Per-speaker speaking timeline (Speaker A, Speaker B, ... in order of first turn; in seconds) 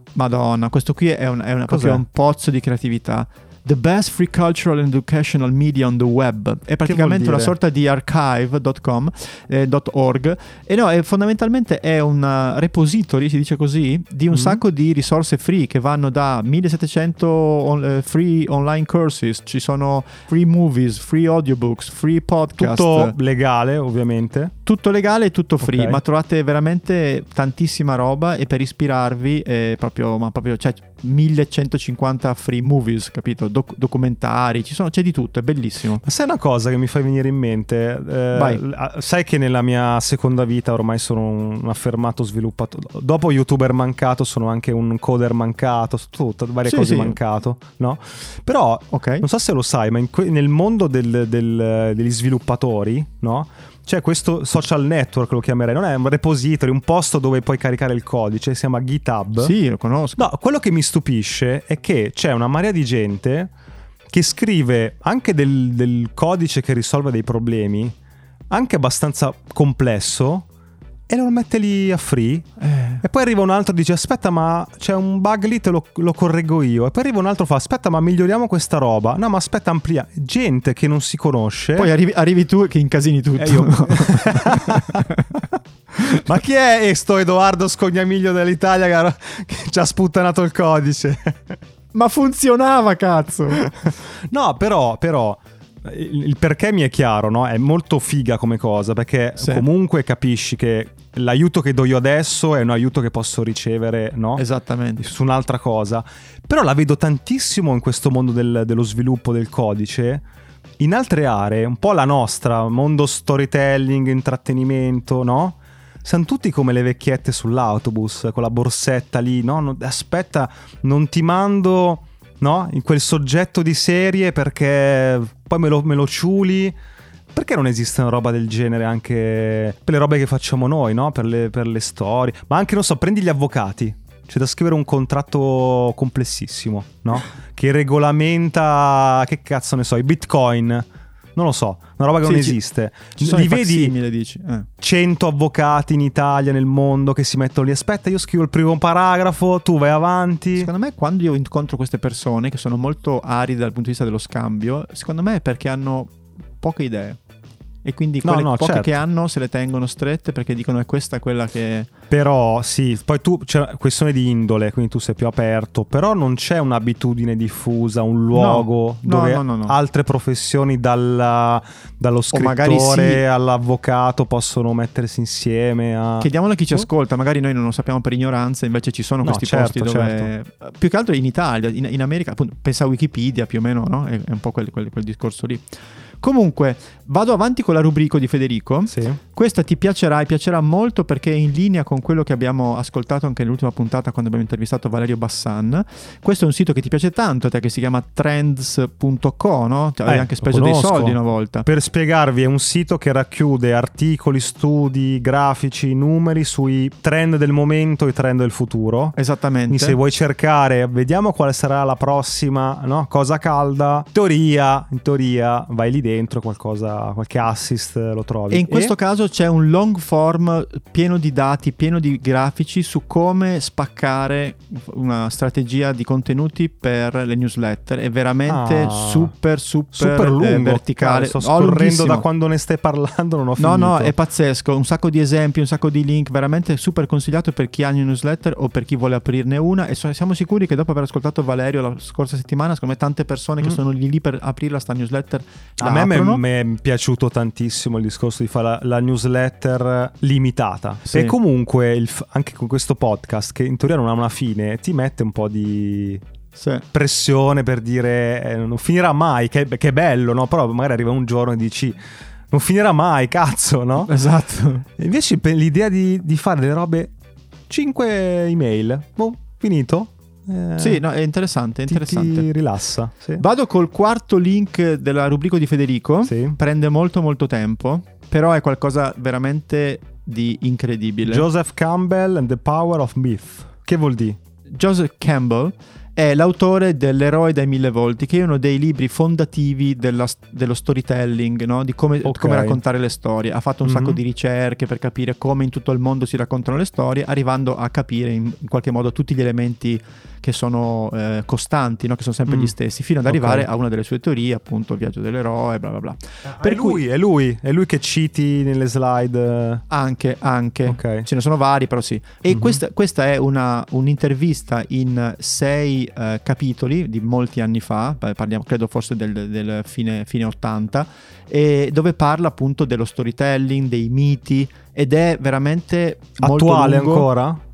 Speaker A: 0.1-23.1, 24.7-36.0, 38.3-38.6, 46.7-47.2, 48.9-49.2, 59.4-60.3, 72.6-73.0, 81.8-85.2, 91.9-93.7, 99.4-99.7, 104.4-105.0, 142.2-144.7, 150.6-157.2, 157.8-161.9, 168.3-169.8, 172.3-173.2, 176.2-185.6, 186.2-201.7, 209.2-210.0, 218.5-232.2, 233.6-246.4, 251.1-251.3, 256.6-256.8, 264.1-264.9, 270.8-272.5, 273.4-281.5, 284.7-307.0, 309.9-327.3
Speaker B: 1.7-2.0, 6.8-7.5, 14.3-14.6, 22.6-24.5, 25.6-26.0, 36.0-59.5, 60.2-63.5, 64.1-67.9, 68.5-70.5, 71.1-72.5, 73.0-81.9, 83.4-91.6, 94.3-104.4, 105.0-110.2, 110.8-126.7, 127.3-140.8, 141.4-143.9, 144.8-150.7, 158.2-159.0, 162.1-176.9, 179.2-180.3, 188.9-189.2, 200.1-209.2, 209.7-218.9, 228.5-229.3, 229.9-234.1, 245.8-256.2, 256.9-262.0, 262.5-264.1, 265.0-267.1, 267.7-271.0, 271.9-273.4, 276.2-276.6, 281.3-284.4, 292.2-292.8, 293.9-294.2, 302.5-302.7, 303.3-303.7, 306.6-309.8, 310.9-311.3, 312.5-312.8, 326.4-327.6